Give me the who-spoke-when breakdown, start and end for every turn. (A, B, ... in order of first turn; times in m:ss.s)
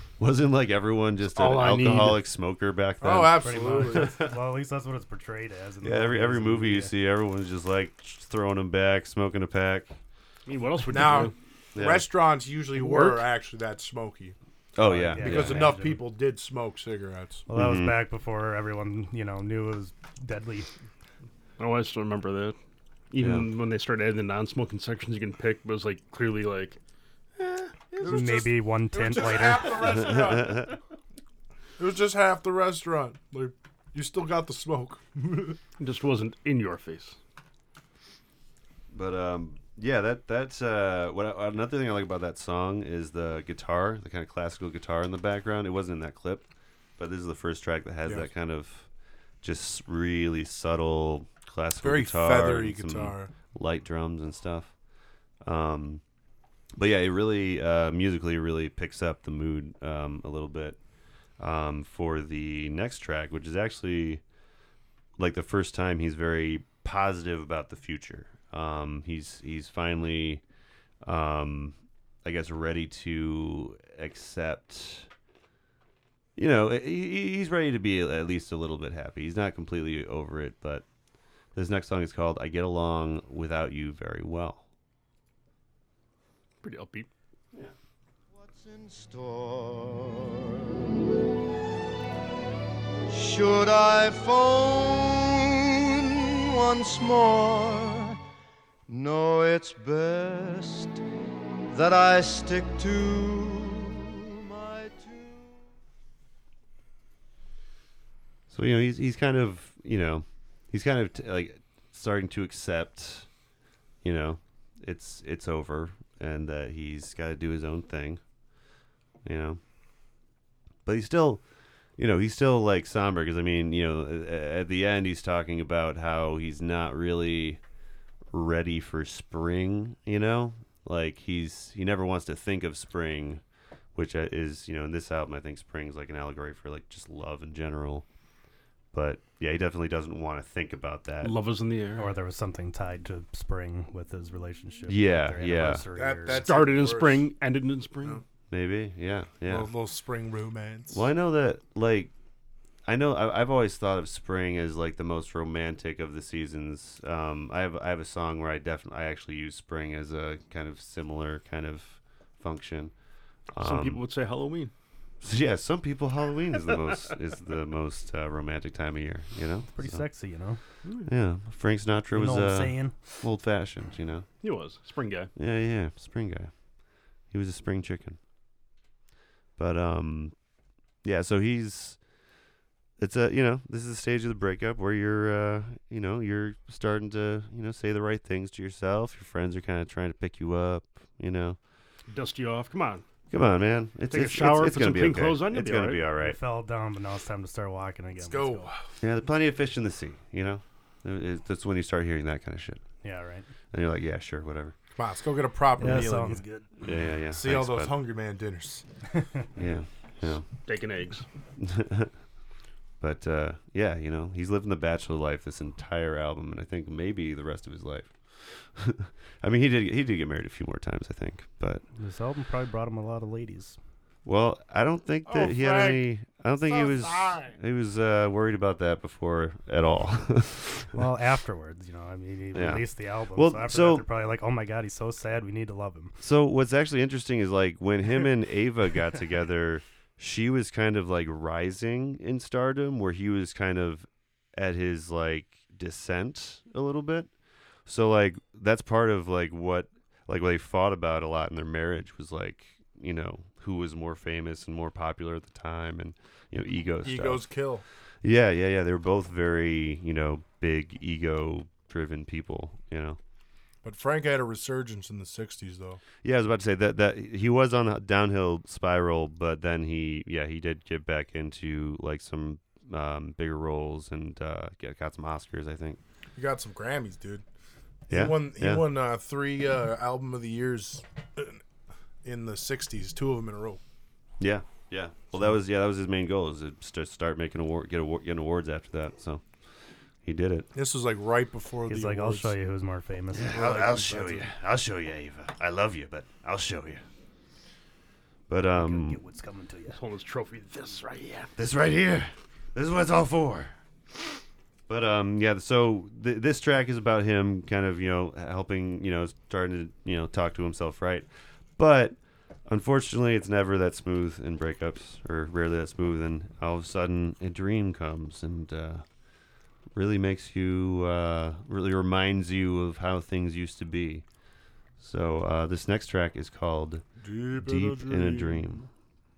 0:00.2-0:04.4 A
0:01.4-0:02.2 B
0:03.0-0:04.2 C
0:03.3-0:06.9 D
0:05.8-0:10.0 A
0:10.5-0:11.3 B
0:10.9-0:14.4 C
0:11.8-0:12.1 A
0:12.8-0:13.2 B
0:14.8-0:15.8 A
0:14.8-0:16.0 D
0:15.2-0:17.4 C
0:17.5-0:20.7 D
0:17.5-0:18.0 A
0:21.6-0:22.6 B
0:23.1-0:26.8 B
0:23.2-0:23.5 A
0:28.0-0:30.8 C
0:28.0-0:30.1 D
0:29.9-0:30.8 A
0:31.8-0:35.6 C
0:35.8-0:37.2 B
0:38.9-0:46.5 A
0:47.0-0:48.9 A
0:48.0-0:48.3 C
0:49.4-0:54.7 A
0:51.8-0:53.3 C
0:55.4-0:56.0 A
0:56.8-1:00.8 A
1:01.4-1:04.2 A
1:05.2-1:10.4 A
1:11.0-1:15.1 A
1:16.4-1:20.9 A
1:21.6-1:24.6 A
1:26.6-1:27.1 B
1:28.3-1:31.0 E
1:33.1-1:38.2 E
1:38.9-1:41.0 E
1:41.7-1:45.6 E
1:48.5-1:53.3 A
1:54.0-1:58.2 A
1:59.2-1:59.6 A
2:00.9-2:01.4 A
2:02.0-2:07.6 A
2:08.3-2:13.4 A
2:14.0-2:18.0 A
2:18.9-2:21.4 A
2:21.2-2:22.1 B
2:22.0-2:26.5 D
2:24.9-2:25.8 A
2:25.9-2:27.3 C
2:26.3-2:28.2 B
2:28.5-2:29.7 A
2:29.5-2:31.1 C
2:30.9-2:32.1 A
2:32.9-2:42.9 A
2:43.5-2:44.0 A
2:43.6-2:44.7 B
2:45.2-2:50.1 A
2:49.7-2:50.6 D
2:50.8-2:51.1 B
2:51.0-2:54.3 A
2:52.1-2:53.1 D
2:54.4-2:55.3 B
2:55.4-2:56.5 A
2:57.3-2:58.2 A
2:59.6-3:00.4 A
3:01.0-3:02.0 A
3:03.0-3:11.6 A
3:12.1-3:13.0 B
3:13.3-3:16.4 A
3:14.1-3:16.0 B
3:16.2-3:18.7 D
3:18.2-3:18.8 C
3:19.0-3:22.8 A
3:23.0-3:23.5 D
3:23.7-3:24.8 A
3:25.0-3:26.4 C
3:25.8-3:26.7 D
3:26.8-3:27.9 A
3:27.3-3:28.9 C
3:29.2-3:29.4 D
3:29.6-3:30.5 A
3:30.6-3:31.3 B
3:31.6-3:32.1 A
3:33.0-3:41.8 A
3:42.0-3:43.8 D
3:44.2-3:51.0 A
3:45.3-3:46.0 C
3:46.7-3:47.6 C
3:50.9-3:56.2 D
3:52.5-3:54.0 A
3:56.2-4:07.3 A
4:07.9-4:17.5 A
4:17.0-4:17.8 C
4:18.2-4:23.2 A
4:23.8-4:26.0 C
4:26.2-4:36.0 A
4:36.4-4:37.4 C
4:38.1-4:41.6 C
4:38.1-4:38.8 A
4:42.2-4:43.8 C
4:44.4-4:49.4 A
4:50.2-4:50.7 A
4:50.7-4:52.5 C
4:51.9-4:54.0 D
4:53.3-4:57.0 A
4:53.5-4:54.5 C
4:58.5-4:59.2 A
4:58.8-5:00.0 D
4:59.9-5:01.5 B
5:01.6-5:03.7 A
5:04.9-5:19.0 A
5:20.0-5:24.2 A
5:25.0-5:28.9 A
5:27.2-5:28.8 C